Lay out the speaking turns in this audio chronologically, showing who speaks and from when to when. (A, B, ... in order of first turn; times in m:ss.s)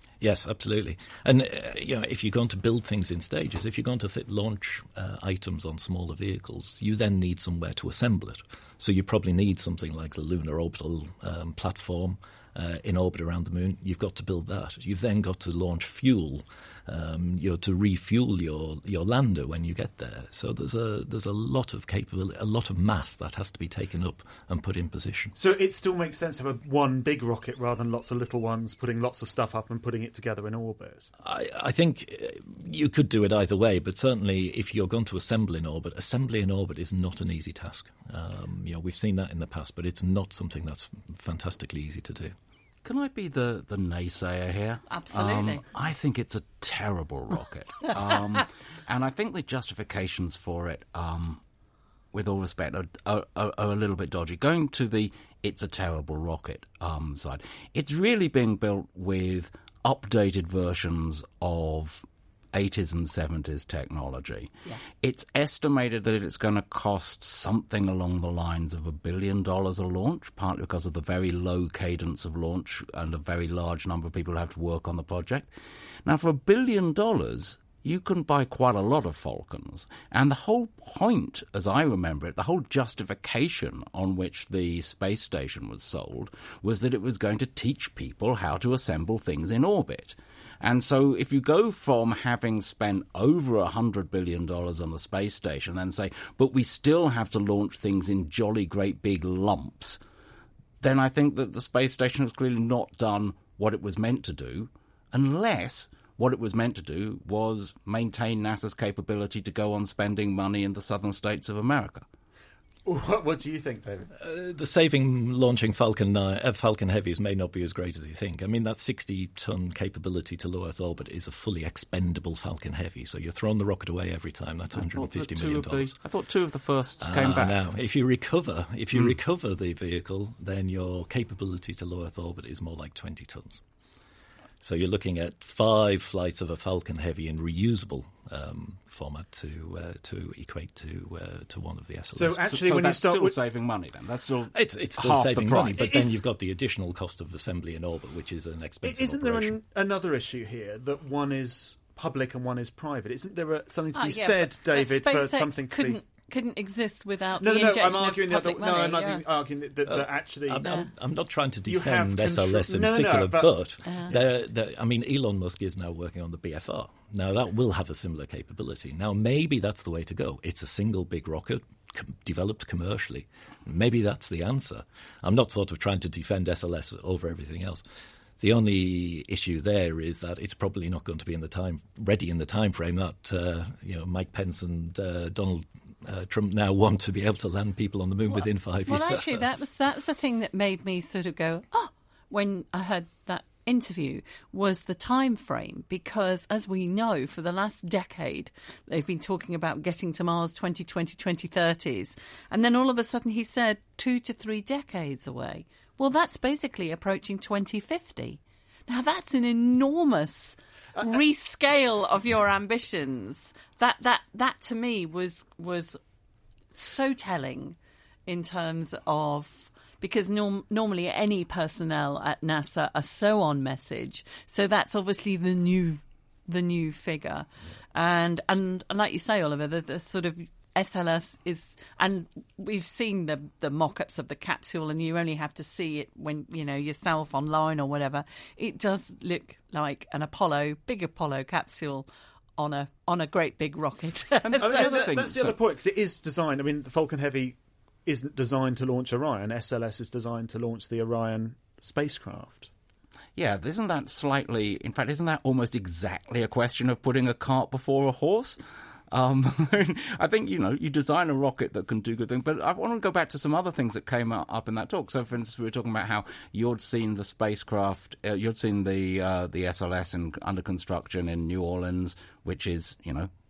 0:00.2-0:25.3 A
0:25.4-0:31.1 B
0:31.2-0:42.3 A
0:42.8-0:51.4 C
0:44.9-0:45.6 D
0:52.1-1:15.5 C
1:16.0-1:40.0 C
1:40.8-1:52.0 C
1:52.8-1:54.1 B
1:54.2-2:05.9 A
2:04.7-2:07.6 C
2:07.0-2:13.6 A
2:08.9-2:09.2 C
2:14.6-2:22.4 A
2:22.1-2:23.3 B
2:22.4-2:26.1 C
2:24.5-2:29.6 A
2:25.8-2:26.1 B
2:28.8-2:36.0 B
2:33.9-2:39.2 D
2:37.4-2:40.7 B
2:39.9-2:57.8 A
2:40.6-2:40.9 D
2:41.7-2:43.5 B
2:43.8-2:44.1 D
2:58.4-3:09.6 A
3:08.9-3:36.0 D
3:36.8-3:37.8 D
3:38.3-4:02.1 D
4:02.6-4:04.9 D
4:04.4-4:05.6 C
4:04.5-4:12.7 B
4:13.4-4:18.6 C
4:19.1-4:33.3 C